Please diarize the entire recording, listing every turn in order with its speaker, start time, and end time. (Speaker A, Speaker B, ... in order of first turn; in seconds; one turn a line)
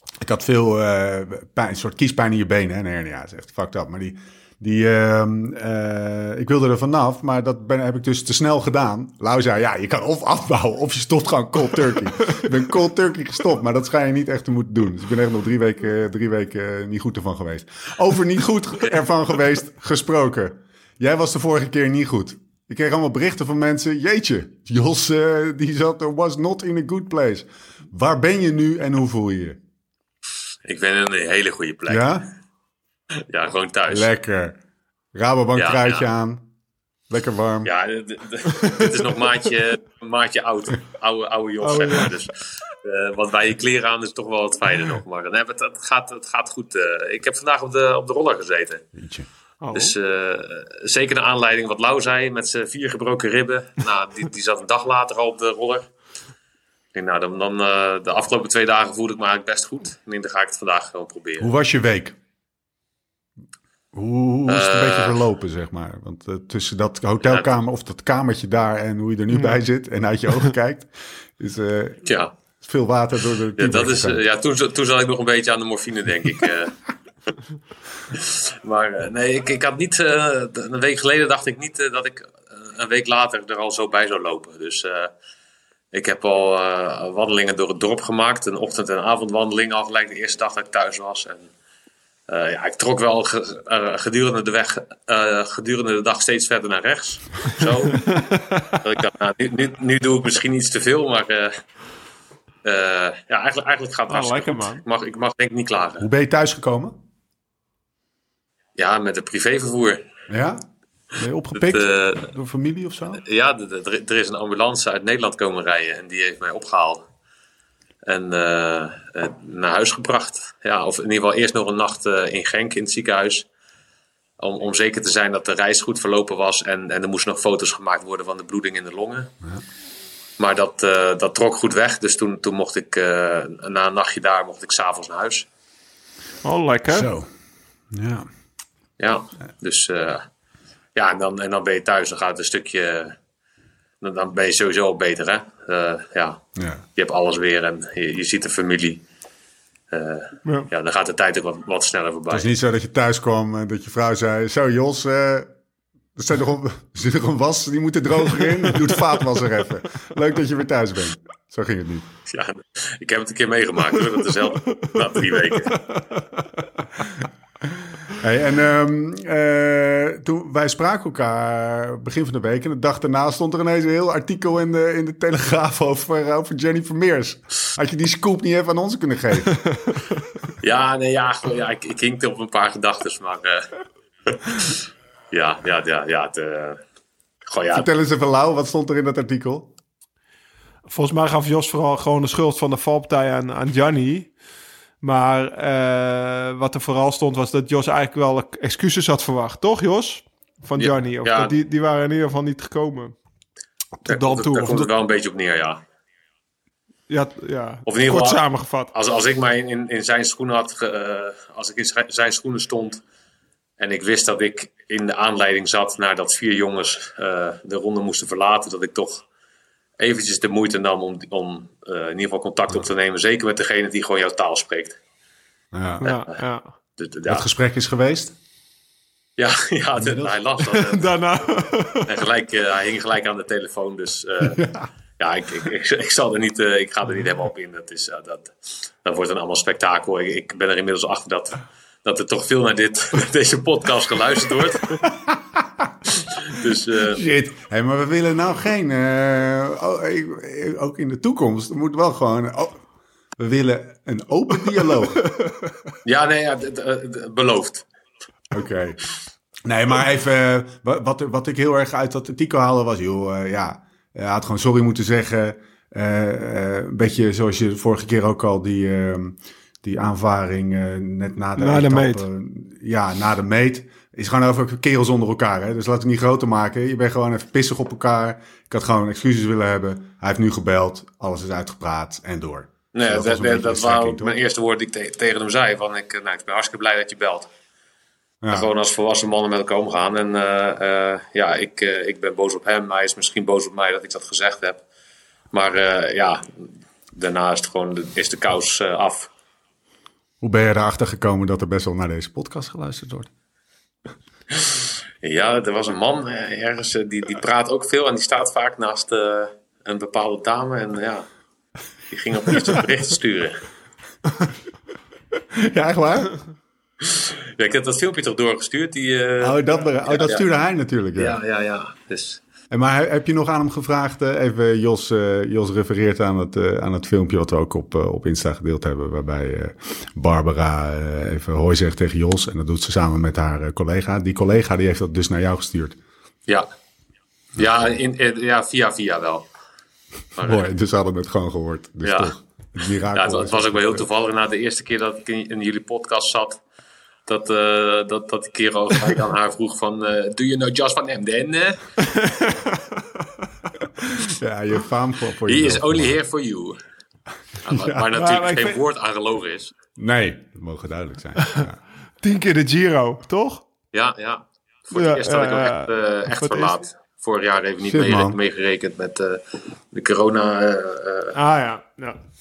Speaker A: 0.2-29.6
Speaker B: 30.6-32.1
Speaker A: 31.9-32.3
Speaker B: 33.3-34.1
Speaker A: 33.9-34.6
Speaker A: 35.1-36.5
Speaker B: 35.6-36.0
Speaker A: 37.1-37.7
Speaker B: 37.6-48.8
Speaker C: 41.6-42.1
Speaker A: 48.9-49.3
Speaker C: 49.6-49.9
Speaker B: 49.7-55.9
Speaker B: 56.9-61.5
Speaker A: 61.4-62.1
Speaker A: 63.9-72.0
Speaker B: 64.5-65.2
Speaker C: 69.3-69.6
Speaker B: 72.0-72.3
Speaker A: 72.6-74.2
Speaker B: 73.6-76.8
Speaker B: 78.1-85.1
Speaker B: 85.9-91.5
Speaker B: 92.3-98.2
Speaker C: 97.9-98.8
Speaker B: 98.8-101.5
Speaker B: 102.6-106.1
Speaker C: 104.1-104.8
Speaker A: 106.0-107.0
Speaker B: 108.8-110.0
Speaker A: 110.3-110.6
Speaker A: 111.2-113.2
Speaker B: 111.5-112.2
Speaker B: 113.2-117.0
Speaker B: 118.1-123.5
Speaker B: 124.4-129.3
Speaker B: 130.4-135.5
Speaker C: 136.4-137.1
Speaker A: 136.9-137.3
Speaker A: 137.9-138.3
Speaker B: 139.0-140.2
Speaker B: 140.9-143.2
Speaker B: 144.0-146.4
Speaker A: 146.6-146.8
Speaker B: 146.9-149.0
Speaker B: 149.9-152.4
Speaker A: 152.3-155.5
Speaker A: 156.2-162.1
Speaker B: 162.3-165.8
Speaker C: 164.7-166.4
Speaker A: 168.1-179.6
Speaker B: 180.6-183.6
Speaker B: 184.3-184.8
Speaker B: 185.3-186.8
Speaker B: 187.5-187.9
Speaker A: 187.7-189.7
Speaker C: 190.9-194.3
Speaker C: 195.0-203.1
Speaker B: 200.8-201.5
Speaker C: 204.0-204.9
Speaker B: 204.1-205.8
Speaker C: 207.1-208.9
Speaker B: 207.9-208.4
Speaker B: 208.9-213.0
Speaker B: 213.8-219.2
Speaker B: 220.0-225.0
Speaker A: 225.7-226.0
Speaker C: 226.0-226.7
Speaker B: 227.0-227.4
Speaker A: 227.3-228.3
Speaker B: 229.4-231.1
Speaker A: 230.0-230.3
Speaker C: 230.7-232.1
Speaker B: 232.1-234.6
Speaker A: 234.5-234.9
Speaker B: 235.2-245.1
Speaker B: 246.4-247.2
Speaker A: 247.1-252.8
Speaker A: 253.4-255.3
Speaker B: 256.0-257.8
Speaker A: 258.5-259.0
Speaker A: 259.6-284.4
Speaker C: 271.6-272.2
Speaker B: 282.9-287.5
Speaker A: 288.4-288.7
Speaker B: 288.5-294.8
Speaker B: 295.5-299.3
Speaker A: 300.4-303.3
Speaker B: 304.7-311.3
Speaker B: 312.1-313.6
Speaker A: 315.6-316.4
Speaker B: 317.0-320.4
Speaker A: 319.4-321.4
Speaker B: 321.2-322.4
Speaker A: 322.7-336.0
Speaker B: 337.6-339.4
Speaker B: 340.4-340.7
Speaker A: 340.4-344.1
Speaker B: 342.0-342.3
Speaker B: 343.1-346.6
Speaker B: 347.3-351.8
Speaker C: 352.2-352.8
Speaker A: 354.0-356.1
Speaker B: 355.5-356.8
Speaker B: 357.6-359.7
Speaker A: 357.7-358.1
Speaker C: 358.1-358.8
Speaker A: 360.0-361.8
Speaker C: 362.2-363.6
Speaker B: 363.9-371.4
Speaker C: 364.9-366.7
Speaker A: 367.9-368.4
Speaker C: 371.3-372.2